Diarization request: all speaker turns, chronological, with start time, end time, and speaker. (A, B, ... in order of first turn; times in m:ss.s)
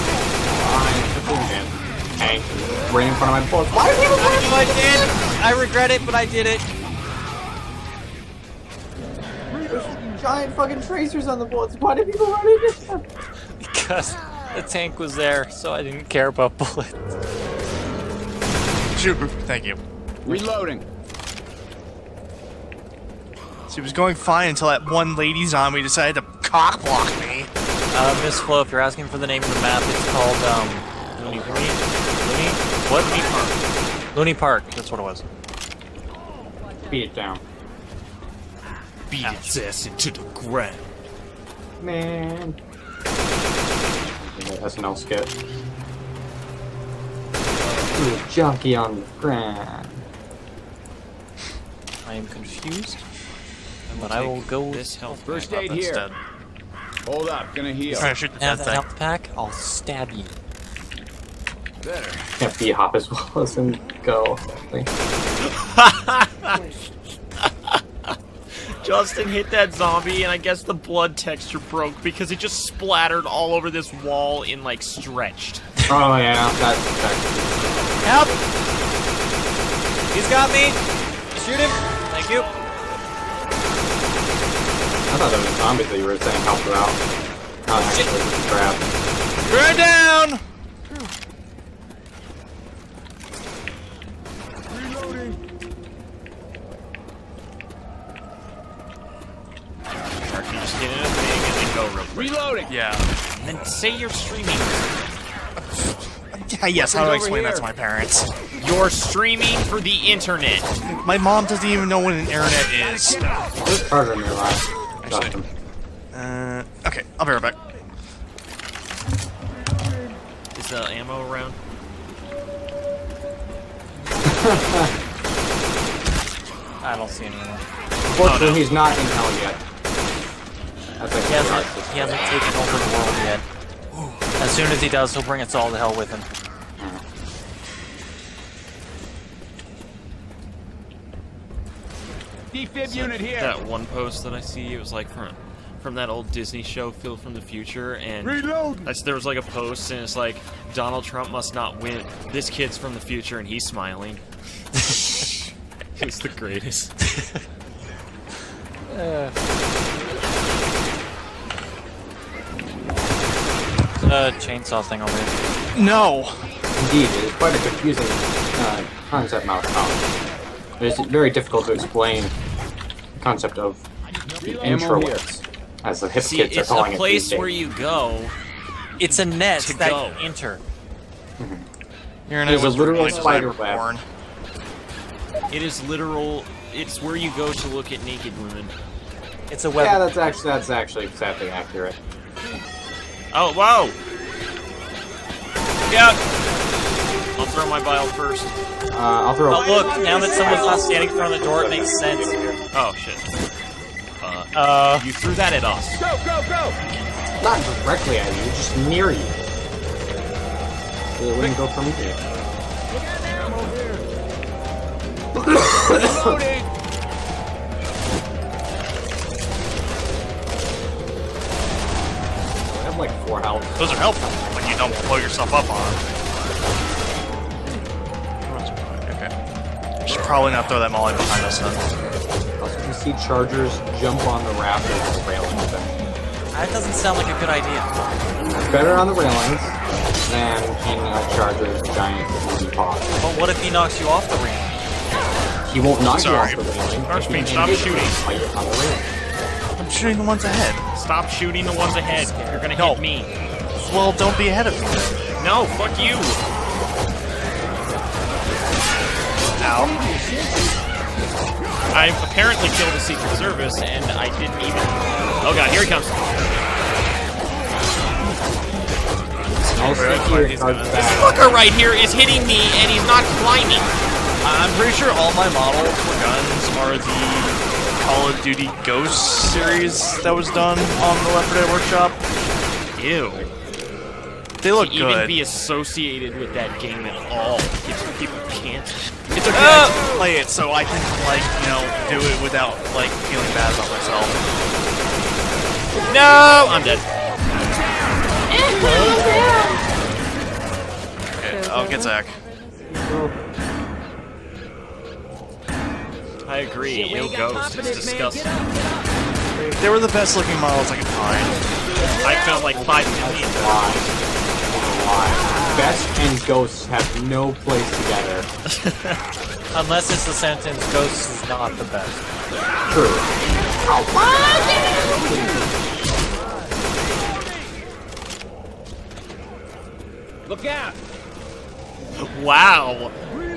0:00.4-0:05.1 A
0:04.2-0:06.6 B
0:09.6-0:13.0 A
0:13.6-0:17.0 B
0:18.9-0:19.8 C
0:20.2-0:20.8 D
0:23.7-0:27.5 C
0:27.9-0:33.3 B
0:31.1-0:31.8 E
0:32.3-0:33.5 E
0:34.1-0:35.2 B
0:36.8-0:37.4 A
0:39.1-0:40.8 E
0:39.2-0:39.6 B
0:41.8-0:42.6 A
0:44.2-0:45.3 A
0:47.9-0:50.0 A
0:52.0-0:53.0 B
0:53.9-0:55.8 E
0:53.9-0:55.4 B
0:55.2-0:56.0 D
0:55.5-0:56.2 C
0:57.0-0:58.1 D
0:57.9-1:00.4 B
0:57.9-0:58.8 C
1:01.8-1:02.2 D
1:02.4-1:04.9 A
1:05.4-1:06.8 E
1:07.4-1:15.7 E
1:15.9-1:17.9 A
1:18.0-1:18.4 B
1:20.1-1:20.8 B
1:21.3-1:22.4 B
1:25.1-1:27.0 A
1:27.6-1:28.8 A
1:27.8-1:28.1 B
1:29.5-1:30.4 C
1:40.2-1:42.5 E
1:42.1-1:42.7 D
1:42.7-1:43.1 C
1:43.4-1:44.9 E
1:45.6-1:48.3 C
1:46.8-1:47.7 D
1:48.6-1:50.7 E
1:51.0-1:53.3 C
1:53.0-1:53.3 D
1:53.6-1:55.5 A
1:55.0-1:55.4 C
1:56.1-1:57.6 C
2:00.5-2:01.6 E
2:04.2-2:04.9 A
2:06.8-2:07.6 B
2:08.1-2:09.6 A
2:08.2-2:09.0 E
2:11.0-2:12.4 A
2:11.2-2:13.4 B
2:13.9-2:14.2 E
2:14.4-2:16.3 B
2:22.5-2:23.5 D
2:22.8-2:34.2 E
2:28.2-2:28.8 D
2:34.9-2:35.3 B
2:36.0-2:36.9 E
2:37.0-2:37.4 B
2:38.9-2:39.3 B
2:44.0-2:45.3 B
2:45.7-2:46.4 C
2:46.8-2:50.0 A
2:50.8-2:52.3 A
2:53.2-2:53.8 A
2:54.3-2:55.2 D
2:54.4-2:57.6 A
2:56.2-2:58.4 E
2:59.0-3:00.6 B
2:59.0-3:00.3 E
3:01.4-3:01.7 A
3:02.3-3:04.0 C
3:02.4-3:03.9 A
3:05.5-3:08.7 E
3:09.5-3:10.1 B
3:09.8-3:12.0 A
3:13.3-3:14.0 E
3:15.9-3:16.2 E
3:17.4-3:18.6 E
3:18.9-3:22.6 A
3:19.5-3:22.4 B
3:19.7-3:20.7 D
3:22.7-3:23.3 E
3:24.2-3:26.0 E
3:24.5-3:25.1 B
3:26.0-3:26.8 D
3:27.4-3:29.4 A
3:31.2-3:32.2 A
3:33.3-3:34.0 D
3:35.6-3:36.4 A
3:35.9-3:36.6 D
3:42.6-3:45.1 A
3:43.8-3:46.0 C
3:48.4-3:49.3 C
3:50.0-3:51.8 C
3:52.6-3:56.0 A
3:56.5-3:57.9 B
3:58.5-4:03.1 A
4:03.2-4:04.8 B
4:05.7-4:09.1 A
4:06.1-4:06.6 C
4:07.1-4:08.2 E
4:09.8-4:10.8 C
4:10.9-4:13.3 E
4:12.1-4:12.7 B
4:12.7-4:13.0 C
4:13.8-4:15.2 C
4:15.4-4:16.4 E
4:19.6-4:19.9 C
4:21.9-4:26.6 E
4:29.7-4:31.4 A
4:29.8-4:31.4 C
4:31.0-4:33.9 E
4:34.4-4:42.2 C
4:42.9-4:43.5 E
4:44.6-4:45.4 C
4:44.8-4:50.0 E
4:49.3-4:54.4 C
4:56.0-4:57.0 E
4:58.5-4:59.8 A
5:01.4-5:02.4 C
5:02.9-5:03.3 A
5:06.4-5:08.6 E
5:06.8-5:08.9 D
5:09.4-5:09.8 A
5:09.8-5:11.6 C
5:12.2-5:14.3 E
5:12.2-5:14.1 A
5:14.6-5:18.5 A
5:18.7-5:19.2 E
5:19.7-5:22.3 B
5:22.9-5:23.2 A
5:23.9-5:25.6 A
5:30.5-5:30.9 D
5:32.2-5:33.2 E